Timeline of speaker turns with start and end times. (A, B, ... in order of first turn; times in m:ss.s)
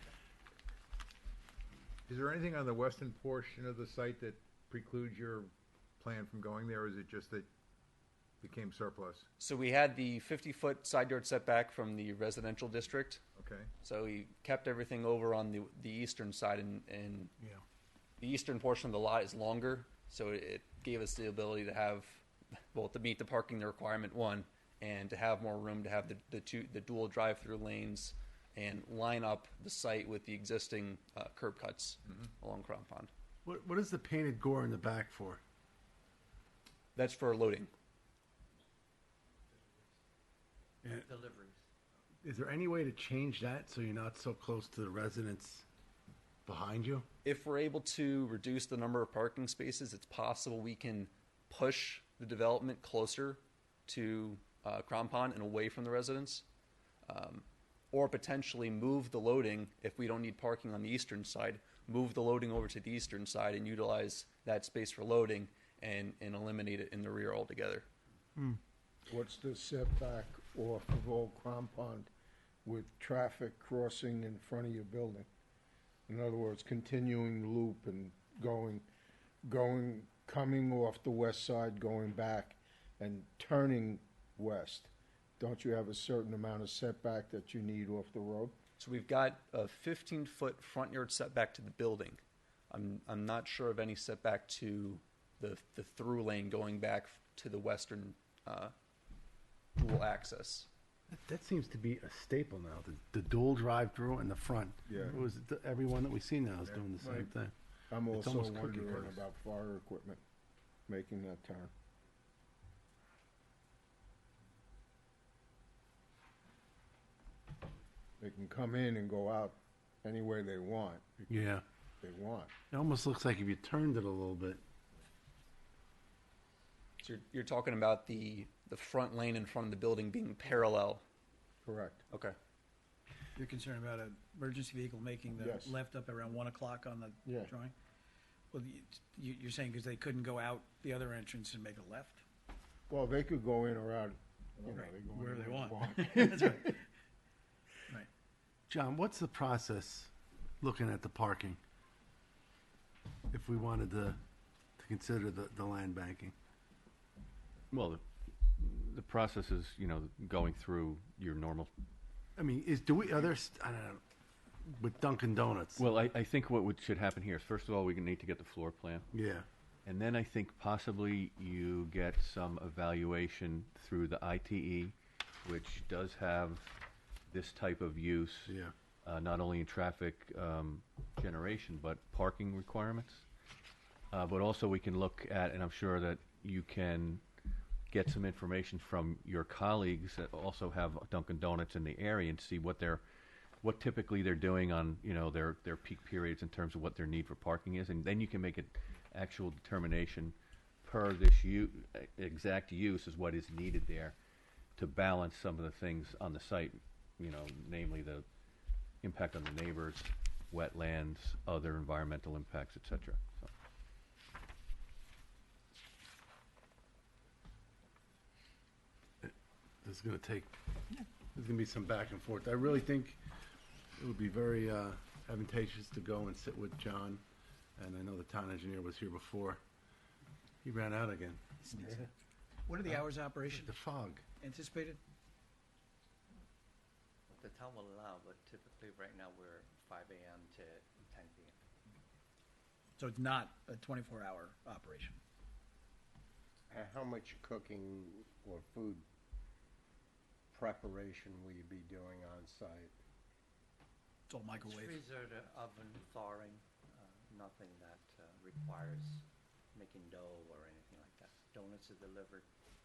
0:02.1-0:07.5 A
0:08.4-0:09.3 A
0:09.4-0:13.2 B
0:13.4-0:13.7 A
0:13.8-0:17.3 B
0:18.2-0:33.1 B
0:33.4-0:35.4 C
0:37.0-0:37.7 B
0:40.8-0:41.1 C
0:40.9-0:41.6 D
0:42.2-0:45.7 C
0:46.5-0:47.1 C
0:47.2-0:56.4 B
0:57.1-1:07.9 B
1:09.1-1:12.1 E
1:12.6-1:15.3 E
1:16.1-1:18.9 E
1:19.4-1:28.6 E
1:28.8-1:38.7 B
1:39.8-1:40.7 B
1:41.1-1:47.5 C
1:44.9-1:45.2 E
1:47.0-1:47.3 E
1:47.9-1:50.2 E
1:48.1-1:49.2 C
1:50.9-1:51.7 E
1:58.2-2:01.3 E
2:01.3-2:01.6 C
2:02.0-2:02.5 E
2:02.7-2:04.6 C
2:07.0-2:11.0 B
2:11.6-2:12.0 E
2:12.1-2:12.4 B
2:13.4-2:17.7 F
2:15.4-2:15.8 E
2:17.2-2:17.5 E
2:18.5-2:22.2 F
2:22.9-2:26.8 E
2:24.7-2:26.8 F
2:28.7-2:31.6 C
2:33.3-2:34.2 C
2:34.8-2:36.4 C
2:37.7-2:38.0 G
2:38.6-2:41.7 G
2:42.4-2:44.0 C
2:44.6-2:45.8 C
2:45.8-2:49.1 G
2:49.1-2:49.5 C
2:49.8-2:56.8 G
2:57.3-3:03.2 G
2:58.5-2:58.7 C
3:04.1-3:07.2 G
3:07.9-3:13.0 G
3:13.6-3:24.2 G
3:24.8-3:28.2 G
3:29.0-3:33.5 G
3:39.2-3:40.6 C
3:41.3-3:43.2 C
3:44.0-3:47.2 C
3:47.8-3:49.6 C
3:50.6-3:51.4 C
3:51.6-3:52.1 F
3:52.7-3:53.8 F
3:52.8-3:54.2 C
3:54.4-3:55.0 F
3:57.3-4:01.6 D
4:03.0-4:05.2 F
4:06.7-4:09.1 H
4:10.5-4:13.0 H
4:14.3-4:15.0 F
4:14.5-4:22.5 D